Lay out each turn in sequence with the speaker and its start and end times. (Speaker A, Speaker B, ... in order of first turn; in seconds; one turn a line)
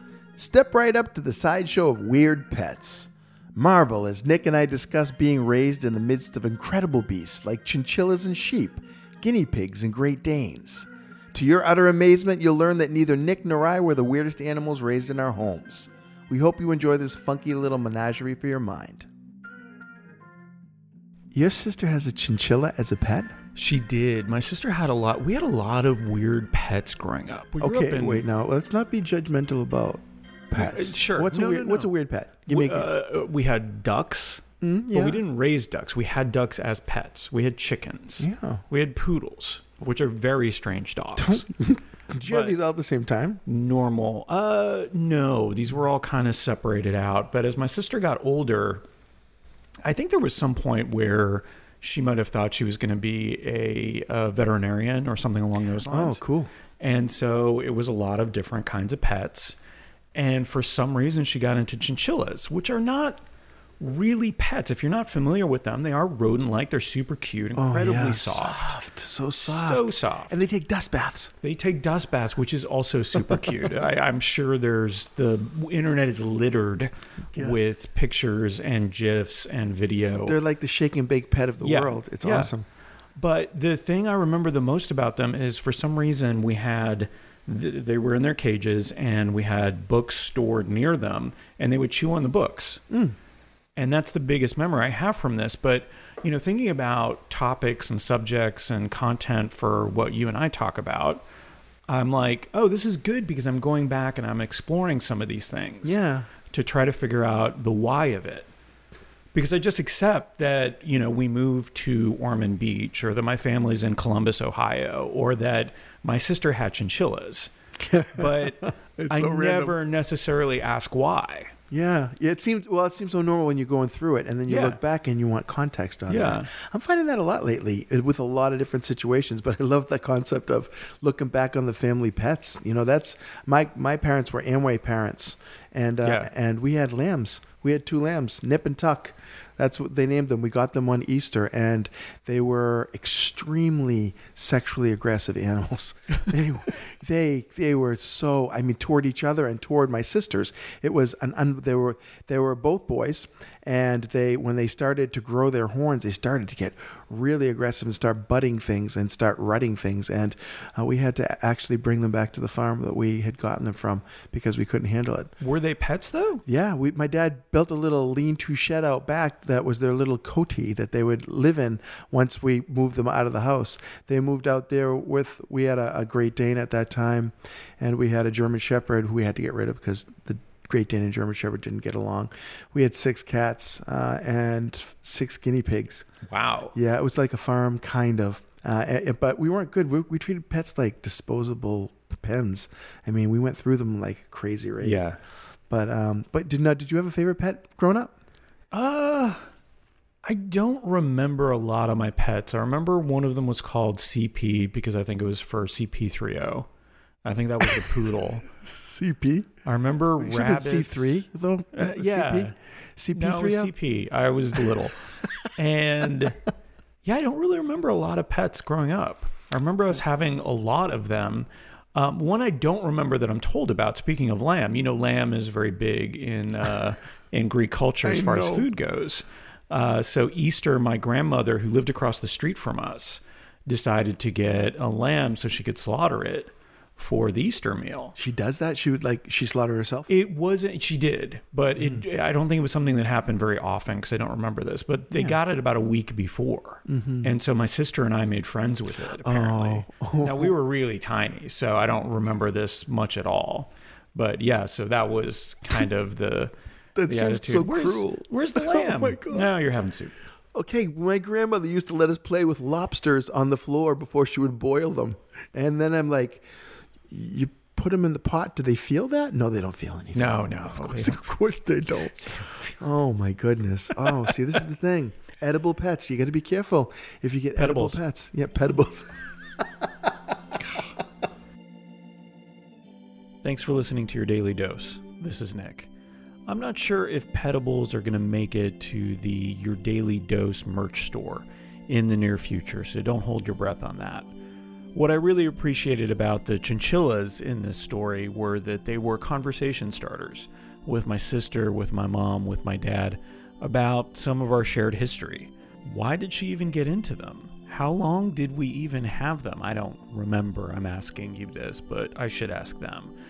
Speaker A: 0.4-19.1
Speaker A: 21.3-23.3
Speaker B: 23.5-28.2
Speaker A: 27.6-32.9
Speaker B: 30.5-31.9
Speaker B: 32.5-41.5
Speaker A: 34.6-35.2
Speaker A: 38.2-38.6
Speaker A: 41.2-43.4
Speaker B: 42.2-42.5
Speaker B: 43.5-48.8
Speaker B: 49.8-56.2
Speaker A: 55.9-56.5
Speaker B: 56.8-59.6
Speaker B: 60.1-63.2
Speaker B: 63.8-68.8
Speaker A: 67.5-71.3
Speaker B: 69.4-70.4
Speaker B: 71.4-80.4
Speaker A: 80.2-82.7
Speaker B: 81.6-82.5
Speaker B: 83.2-92.8
Speaker A: 92.9-93.2
Speaker B: 93.8-101.2
Speaker B: 101.9-106.0
Speaker A: 105.8-106.3
Speaker B: 106.5-108.5
Speaker B: 109.3-117.5
Speaker A: 117.8-119.8
Speaker B: 118.1-121.5
Speaker A: 121.7-165.3
Speaker B: 124.5-124.8
Speaker B: 126.1-126.5
Speaker B: 136.0-136.3
Speaker B: 165.4-166.4
Speaker A: 166.4-186.1
Speaker B: 186.3-186.7
Speaker A: 186.7-195.0
Speaker B: 194.8-195.2
Speaker A: 195.7-198.1
Speaker B: 198.7-199.4
Speaker B: 200.2-206.7
Speaker B: 207.2-208.4
Speaker A: 208.5-209.5
Speaker B: 209.7-212.5
Speaker A: 210.2-213.7
Speaker B: 213.1-215.0
Speaker B: 215.6-216.4
Speaker B: 217.0-238.2
Speaker A: 228.0-228.7
Speaker A: 238.2-240.1
Speaker B: 240.1-256.5
Speaker A: 241.8-242.0
Speaker A: 245.1-245.4
Speaker A: 246.9-247.3
Speaker A: 249.2-250.5
Speaker A: 256.9-259.5
Speaker B: 257.1-260.1
Speaker A: 260.5-266.4
Speaker A: 267.1-279.2
Speaker B: 270.1-271.2
Speaker B: 277.5-278.0
Speaker B: 283.4-285.9
Speaker B: 286.5-294.3
Speaker B: 294.9-313.1